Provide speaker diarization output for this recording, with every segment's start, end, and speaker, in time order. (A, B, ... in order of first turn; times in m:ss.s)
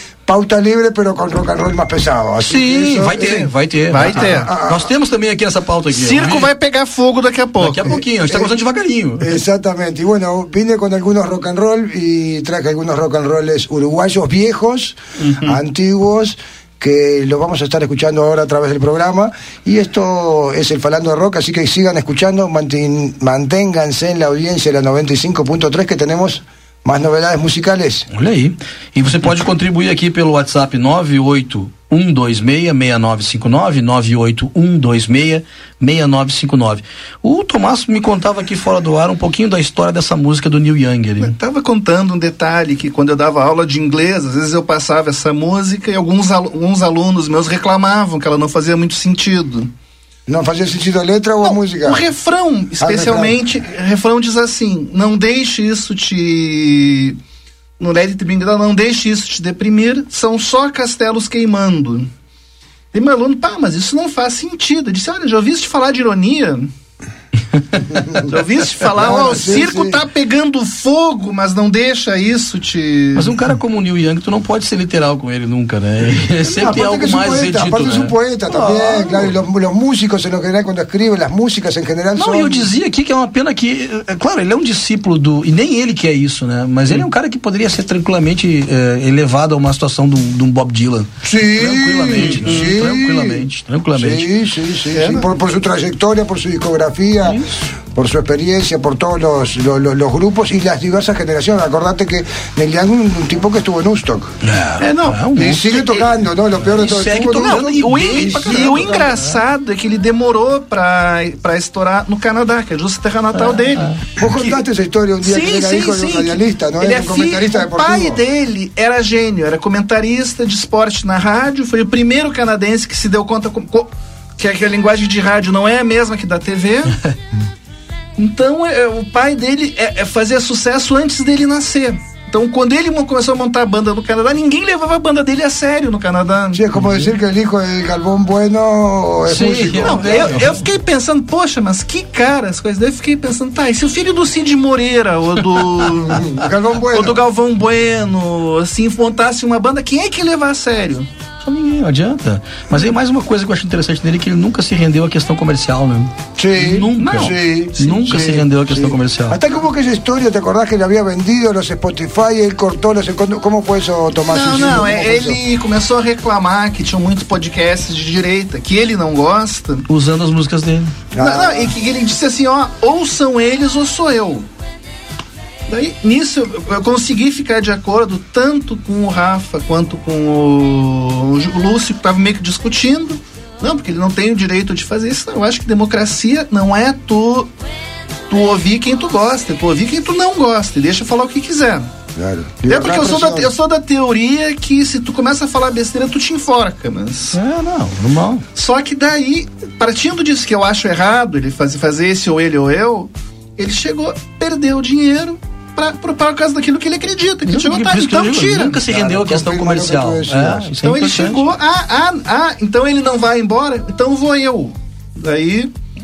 0:00.3-0:04.9 A
0:02.5-0:06.5 B
0:03.9-0:04.5 C
0:05.9-0:08.0 C
0:07.6-0:09.4 B
0:07.9-0:08.5 A
0:09.2-0:28.0 A
0:15.2-0:15.6 C
0:28.1-0:41.4 B
0:41.2-0:49.7 C
0:50.3-0:52.1 A
0:51.4-0:57.2 C
0:52.8-0:53.4 A
0:57.8-1:02.1 C
1:02.9-1:06.7 C
1:07.7-1:08.1 B
1:08.3-1:13.4 C
1:08.8-1:10.0 A
1:13.2-1:19.3 B
1:16.4-1:22.7 A
1:22.2-1:34.3 B
1:31.2-1:37.4 A
1:32.3-1:32.8 C
1:34.9-1:35.2 C
1:38.0-1:44.3 A
1:44.4-1:45.8 B
1:44.8-1:45.3 C
1:45.4-1:49.1 A
1:46.6-1:49.3 B
1:47.2-1:54.6 C
1:53.4-1:54.0 B
1:54.2-1:58.2 A
1:55.2-2:06.9 C
2:08.2-2:16.6 C
2:16.5-2:20.5 A
2:16.8-2:17.1 B
2:19.3-2:20.6 B
2:19.8-2:26.3 C
2:26.2-2:27.2 A
2:26.9-2:31.1 C
2:31.4-2:39.4 B
2:36.4-2:45.4 A
2:37.0-2:38.2 C
2:44.2-2:49.8 C
2:49.9-2:51.0 B
2:51.2-2:51.7 A
2:51.2-2:54.5 C
2:55.7-3:07.5 C
3:08.3-3:11.9 C
3:12.2-3:13.5 A
3:12.7-3:17.4 C
3:17.3-3:18.4 B
3:18.6-3:28.8 C
3:27.4-3:31.5 B
3:28.8-3:30.7 A
3:30.8-3:35.7 C